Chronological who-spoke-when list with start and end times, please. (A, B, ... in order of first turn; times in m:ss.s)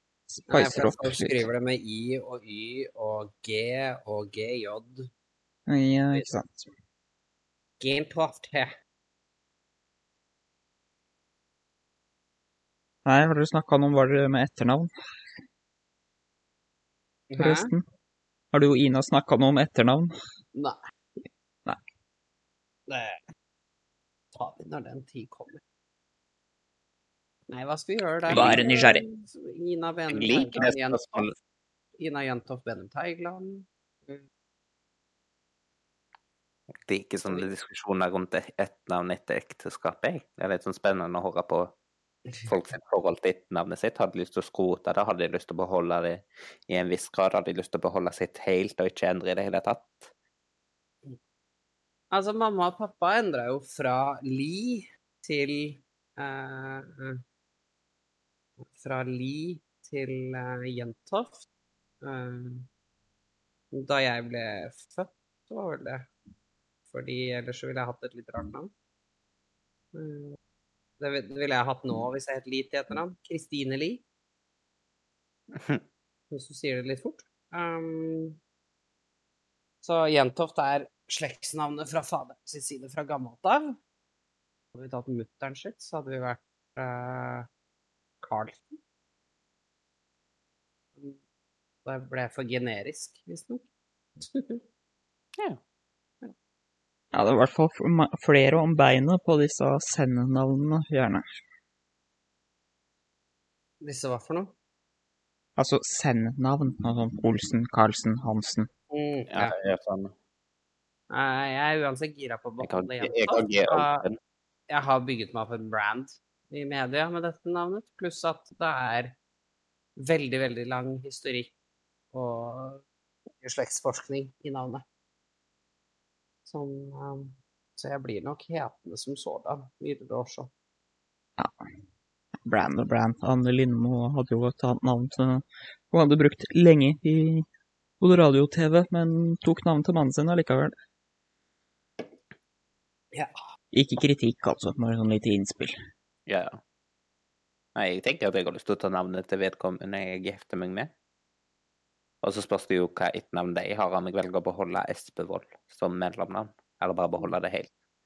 0:00.3-0:01.5 A
0:00.5-0:05.1 B
0:05.7-0:06.7 A
0:07.8-0:08.7 B
0:13.0-0:14.9 A
0:17.3-0:17.7 B
0:17.4-0:17.9 A
0:18.5-0:20.1 A
0:22.9-0:23.2 B
0:24.3-0:25.6 B
0:27.5-0:31.0 B
0:28.3-0:28.6 C
0:28.3-0:29.0 A
0:30.1-0:31.3 C
0:32.0-0:34.2 B
0:36.8-0:41.7 C
0:42.5-0:50.1 C
0:52.1-0:57.2 B
0:58.6-1:01.5 B
1:02.0-1:02.7 B
1:03.7-1:06.1 B
1:06.9-1:08.7 B
1:09.9-1:10.4 B
1:11.0-1:14.0 B
1:16.3-1:18.4 B
1:19.8-1:23.8 B
1:24.7-1:27.5 B
1:28.2-1:28.8 B
1:31.8-1:33.6 B
1:34.2-1:34.6 B
1:37.1-1:41.2 A
1:43.8-1:44.5 B
1:45.6-1:48.7 A
1:48.9-1:49.5 B
1:49.3-1:50.1 C
1:51.1-1:54.0 B
1:52.6-1:54.2 C
1:54.7-1:59.2 B
2:00.0-2:01.5 B
2:02.1-2:02.8 B
2:03.4-2:04.8 B
2:06.5-2:10.5 B
2:12.4-2:17.5 A
2:18.0-2:20.7 A
2:23.7-2:25.8 A
2:26.3-2:26.6 C
2:27.8-2:30.9 C
2:32.2-2:37.7 C